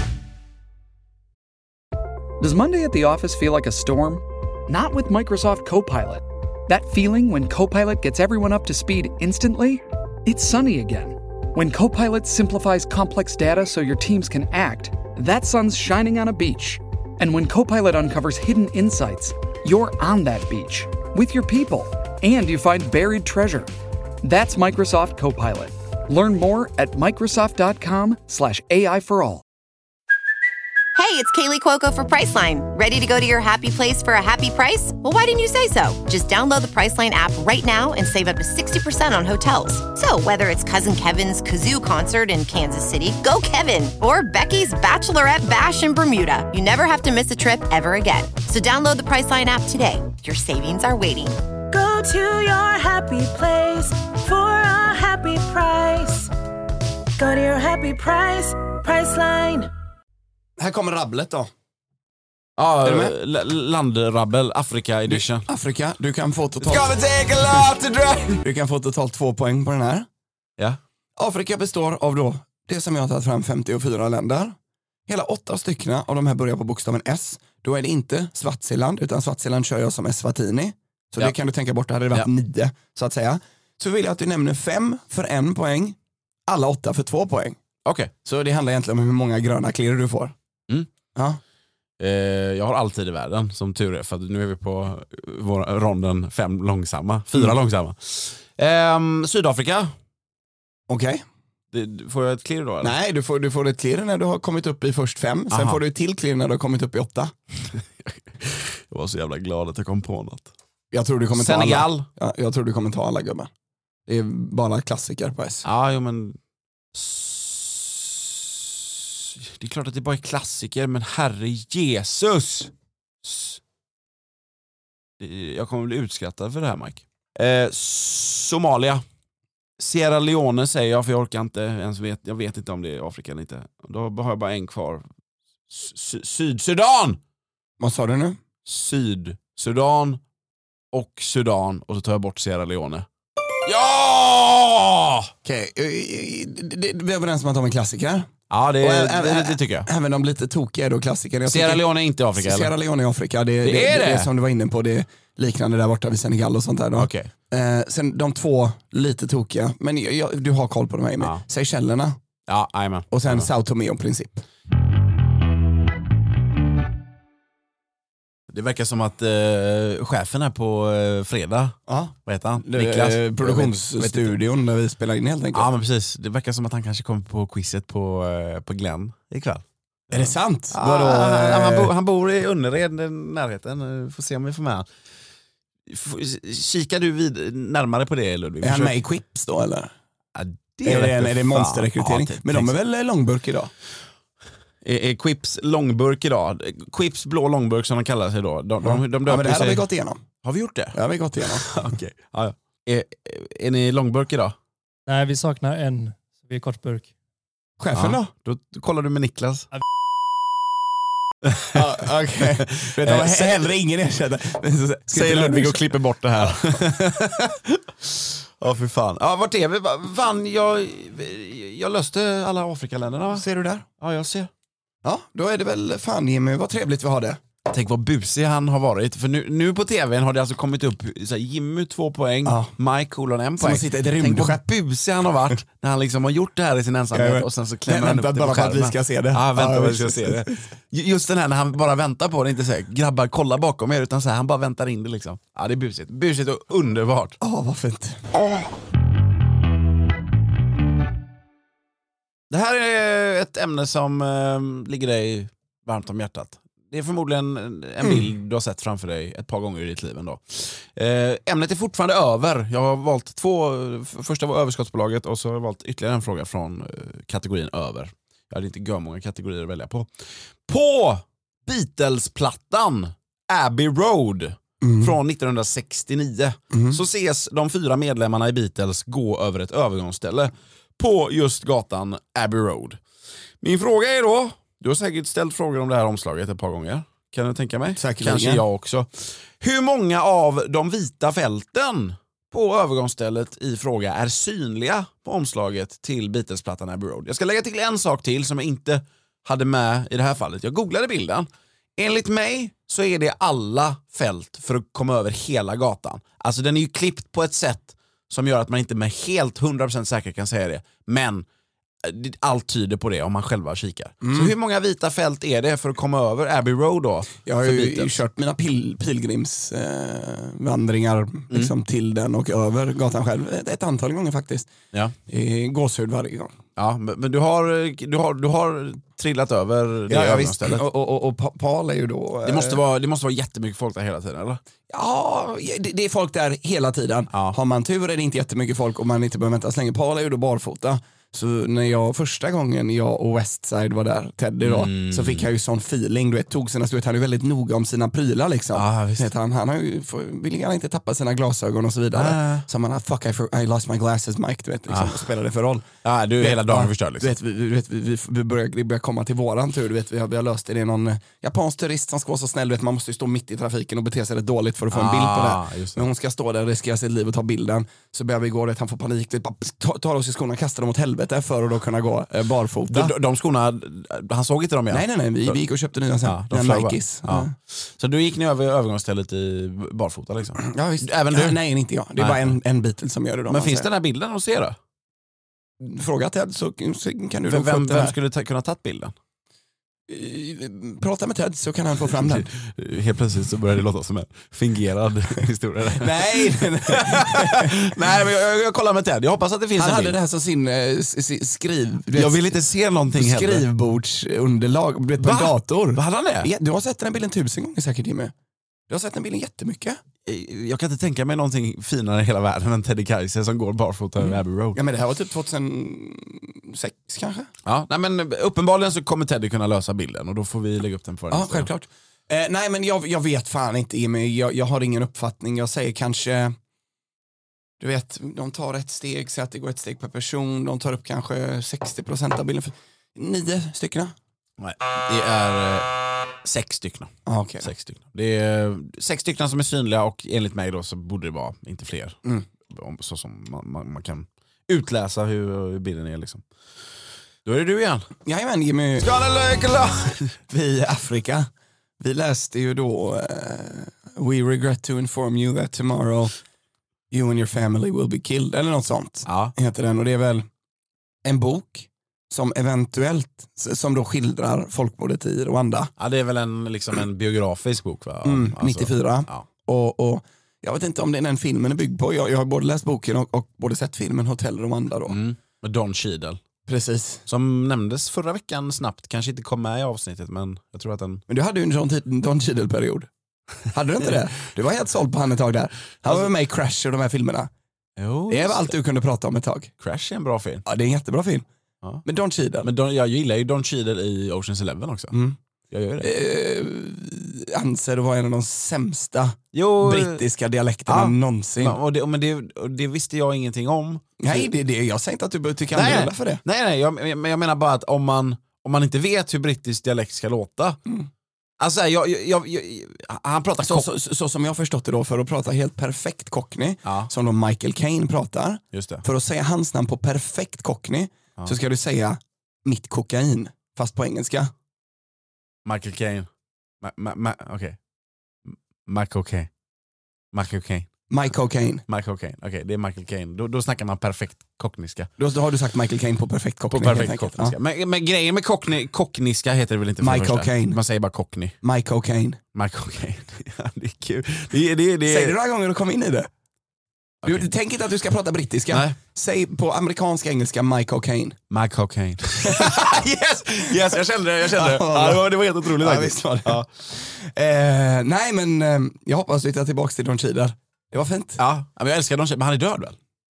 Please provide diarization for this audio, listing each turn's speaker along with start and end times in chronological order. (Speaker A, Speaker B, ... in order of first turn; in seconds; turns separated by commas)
Speaker A: 2.4-23.7, Speaker A: 24.2-29.4, Speaker B: 30.9-51.4, Speaker C: 51.7-56.3, Speaker C: 57.2-59.7, Speaker D: 60.6-61.5, Speaker E: 62.6-65.5, Speaker D: 62.8-63.1, Speaker D: 65.1-66.9, Speaker E: 66.6-68.4, Speaker D: 68.4-70.1, Speaker D: 71.2-74.6, Speaker D: 75.1-86.0, Speaker D: 86.5-87.6, Speaker E: 87.8-88.1, Speaker D: 88.2-90.3, Speaker D: 91.2-91.4, Speaker E: 92.0-99.9, Speaker D: 100.9-101.2, Speaker E: 101.7-103.0, Speaker D: 102.8-107.3, Speaker E: 105.5-105.8, Speaker E: 107.7-110.5, Speaker D: 110.9-113.5, Speaker E: 111.3-112.1, Speaker D: 114.1-115.7, Speaker E: 115.6-116.4, Speaker E: 116.9-122.7, Speaker E: 123.2-123.6, Speaker E: 125.2-129.0, Speaker E: 129.8-135.1, Speaker E: 135.7-137.2, Speaker D: 137.8-138.4, Speaker E: 138.7-140.2, Speaker E: 140.9-143.1, Speaker E: 143.7-145.3, Speaker D: 145.4-151.8, Speaker E: 148.5-149.9, Speaker E: 151.5-152.7, Speaker D: 152.4-162.2, Speaker E: 153.6-154.3, Speaker E: 157.0-157.3, Speaker E: 162.5-163.5, Speaker D: 163.1-164.5, Speaker E: 168.5-174.4, Speaker D: 171.9-175.7, Speaker E: 175.5-184.9, Speaker D: 180.1-181.9, Speaker E: 185.9-188.9, Speaker D: 188.6-189.9, Speaker E: 190.3-192.7, Speaker D: 190.8-193.7, Speaker E: 194.8-199.9, Speaker D: 198.8-200.2, Speaker E: 200.4-204.6, Speaker D: 200.9-201.8, Speaker F: 205.1-207.1, Speaker D: 207.8-208.3, Speaker E: 207.9-209.7, Speaker E: 211.4-211.8, Speaker D: 211.7-216.8, Speaker E: 212.7-213.7, Speaker E: 215.1-223.5, Speaker D: 223.3-223.9, Speaker E: 224.0-224.5, Speaker D: 225.0-227.4, Speaker E: 227.7-247.4, Speaker D: 232.4-232.7, Speaker D: 233.6-234.6, Speaker D: 237.1-240.6, Speaker D: 247.4-248.2, Speaker E: 252.5-270.1, Speaker E: 270.7-283.0, Speaker D: 274.8-275.2, Speaker D: 276.7-277.0, Speaker E: 283.6-311.5, Speaker D: 288.0-288.6, Speaker E: 312.0-318.2, Speaker D: 314.2-314.5, Speaker D: 317.5-324.7, Speaker D: 325.3-326.5, Speaker E: 326.8-330.8, Speaker D: 330.1-332.8, Speaker E: 332.4-334.6, Speaker D: 334.9-355.9, Speaker E: 337.3-337.6, Speaker E: 344.6-345.5, Speaker E: 348.7-349.3, Speaker E: 352.1-352.7, Speaker E: 354.9-355.3, Speaker E: 356.0-357.3, Speaker D: 356.4-373.1, Speaker E: 364.9-366.1, Speaker E: 372.9-375.6, Speaker D: 374.9-377.5, Speaker E: 376.2-381.6, Speaker D: 380.6-383.9, Speaker E: 382.2-382.6, Speaker E: 383.5-384.8, Speaker D: 385.8-388.1, Speaker E: 387.5-389.1, Speaker D: 390.1-392.5, Speaker E: 392.1-400.2, Speaker D: 396.0-397.9, Speaker D: 399.8-402.6, Speaker E: 402.1-403.7, Speaker D: 403.1-408.3, Speaker E: 405.2-406.5, Speaker D: 408.9-410.0, Speaker E: 410.2-414.8, Speaker D: 414.2-417.5, Speaker E: 417.6-421.7, Speaker D: 421.3-426.6, Speaker D: 427.8-434.1, Speaker E: 434.6-435.9, Speaker E: 436.4-446.4, Speaker D: 437.3-437.7, Speaker E: 447.4-448.1, Speaker D: 448.2-449.1, Speaker E: 449.0-450.4, Speaker D: 450.5-451.5, Speaker D: 452.0-456.3, Speaker D: 457.1-460.5, Speaker E: 459.3-459.6, Speaker D: 461.2-465.9, Speaker E: 466.0-469.5, Speaker D: 468.2-475.2, Speaker E: 475.1-476.4, Speaker D: 476.7-477.2, Speaker E: 477.3-481.2, Speaker D: 481.3-483.1, Speaker D: 483.7-487.5, Speaker E: 486.1-486.3, Speaker E: 488.0-488.8, Speaker D: 488.3-489.7, Speaker E: 489.8-490.6, Speaker D: 490.6-491.4, Speaker D: 492.1-492.7, Speaker E: 492.6-495.1, Speaker D: 495.1-495.4, Speaker E: 495.7-496.1, Speaker D: 496.0-501.8, Speaker E: 499.5-500.2, Speaker E: 500.9-504.5, Speaker D: 504.2-506.4, Speaker E: 505.7-510.8, Speaker E: 511.6-513.9, Speaker D: 513.6-524.5, Speaker E: 516.9-517.1, Speaker E: 518.7-519.0, Speaker E: 525.6-526.3, Speaker E: 526.8-527.8, Speaker E: 528.5-529.5, Speaker E: 530.3-530.9, Speaker D: 531.1-531.8, Speaker E: 531.9-535.1, Speaker D: 535.2-537.5, Speaker E: 536.7-541.6, Speaker D: 540.0-540.8, Speaker D: 541.6-542.4, Speaker E: 542.5-545.4, Speaker D: 545.0-546.3, Speaker E: 547.2-547.5, Speaker D: 547.2-551.4, Speaker E: 548.7-549.0, Speaker E: 551.5-556.7, Speaker D: 552.5-552.8, Speaker D: 554.5-561.4, Speaker E: 561.4-563.0